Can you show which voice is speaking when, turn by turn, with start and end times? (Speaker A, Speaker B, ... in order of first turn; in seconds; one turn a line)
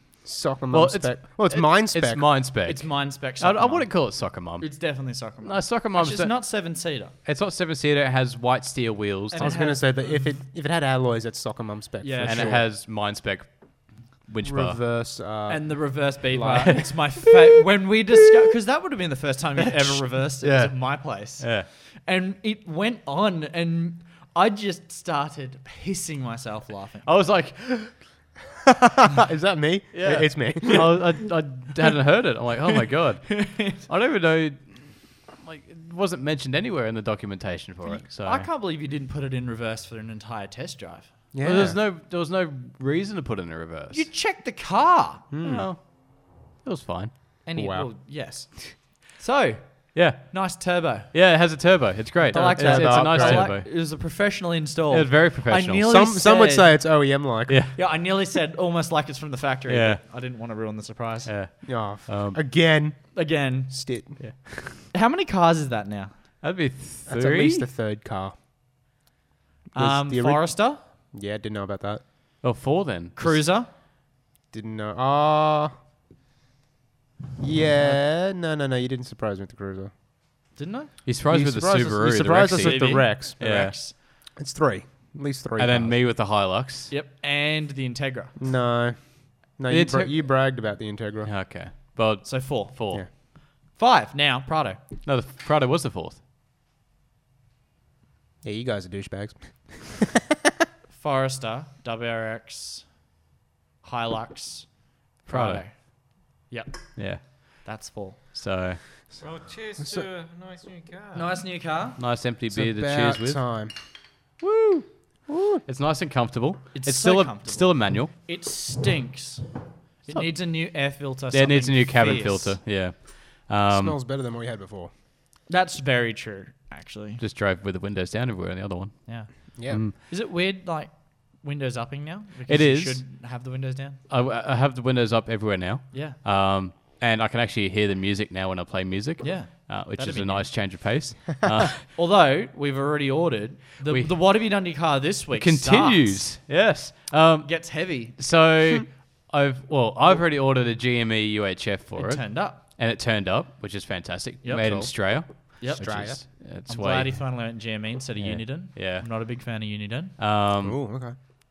Speaker A: 0.2-2.3
Speaker B: 0.7-6.5
Speaker C: 2.6-7.2
Speaker B: 7.2-9.5
Speaker C: 9.3-10.4
Speaker A: 9.4-12.7
Speaker C: 12.0-12.7
Speaker B: 12.2-14.8
Speaker A: 14.4-16.9
Speaker C: 15.5-27.1
Speaker B: 16.5-17.3
Speaker B: 20.4-21.7
Speaker B: 27.1-28.0
Speaker A: 28.7-31.1
Speaker B: 29.9-38.5
Speaker C: 33.3-33.8
Speaker C: 37.8-41.1
Speaker A: 41.3-41.8
Speaker B: 41.4-44.1
Speaker C: 43.9-45.3
Speaker A: 45.3-45.7
Speaker B: 45.4-47.1
Speaker C: 47.5-51.1
Speaker A: 47.5-47.9
Speaker B: 49.9-50.5
Speaker B: 51.1-53.7
Speaker C: 52.2-56.7
Speaker A: 52.3-53.5
Speaker B: 54.9-55.9
Speaker A: 55.8-57.6
Speaker B: 57.5-57.8
Speaker C: 57.8-61.3
Speaker B: 59.7-60.0
Speaker B: 61.3-62.4
Speaker A: 61.6-63.2
Speaker C: 63.1-63.7
Speaker A: 63.7-64.2
Speaker B: 64.2-64.8
Speaker C: 64.9-66.2
Speaker B: 66.4-67.7
Speaker A: 67.1-68.3
Speaker A: 69.7-72.0
Speaker C: 69.8-70.8
Speaker B: 72.4-73.4
Speaker C: 73.2-73.7
Speaker A: 74.5-75.7
Speaker A: 77.4-79.9
Speaker C: 80.5-80.9
Speaker B: 81.0-83.8
Speaker A: 81.3-83.4
Speaker C: 82.5-83.9
Speaker A: 84.4-86.0
Speaker B: 85.6-86.9
Speaker C: 86.9-88.3
Speaker A: 88.4-91.3
Speaker B: 89.7-90.1
Speaker B: 91.2-93.0
Speaker C: 92.2-94.8
Speaker B: 95.0-96.2
Speaker A: 98.4-100.2
Speaker C: 100.9-102.9
Speaker C: 103.8-108.2
Speaker B: 105.3-105.7
Speaker B: 107.0-107.6
Speaker B: 108.3-108.8
Speaker D: 109.2-111.3
Speaker A: 109.8-110.1
Speaker C: 111.1-112.0
Speaker B: 112.0-113.4
Speaker A: 112.5-113.7
Speaker B: 114.4-114.9
Speaker A: 115.3-115.6
Speaker B: 115.7-118.1
Speaker C: 116.7-119.5
Speaker C: 120.0-122.6
Speaker B: 121.3-124.0
Speaker A: 123.7-124.9
Speaker C: 125.5-127.2
Speaker B: 127.2-129.9
Speaker C: 129.1-134.0
Speaker A: 129.6-129.8
Speaker B: 132.5-133.0
Speaker B: 134.1-141.8
Speaker C: 135.9-136.2
Speaker C: 139.2-140.5
Speaker C: 141.9-146.3
Speaker B: 143.8-144.1
Speaker B: 145.3-157.2
Speaker C: 147.4-148.2
Speaker C: 152.0-152.6
Speaker C: 154.4-154.9
Speaker C: 155.6-155.8
Speaker A: 155.8-156.2
Speaker C: 156.7-160.2
Speaker B: 158.2-159.1
Speaker B: 160.2-160.8
Speaker A: 160.6-161.2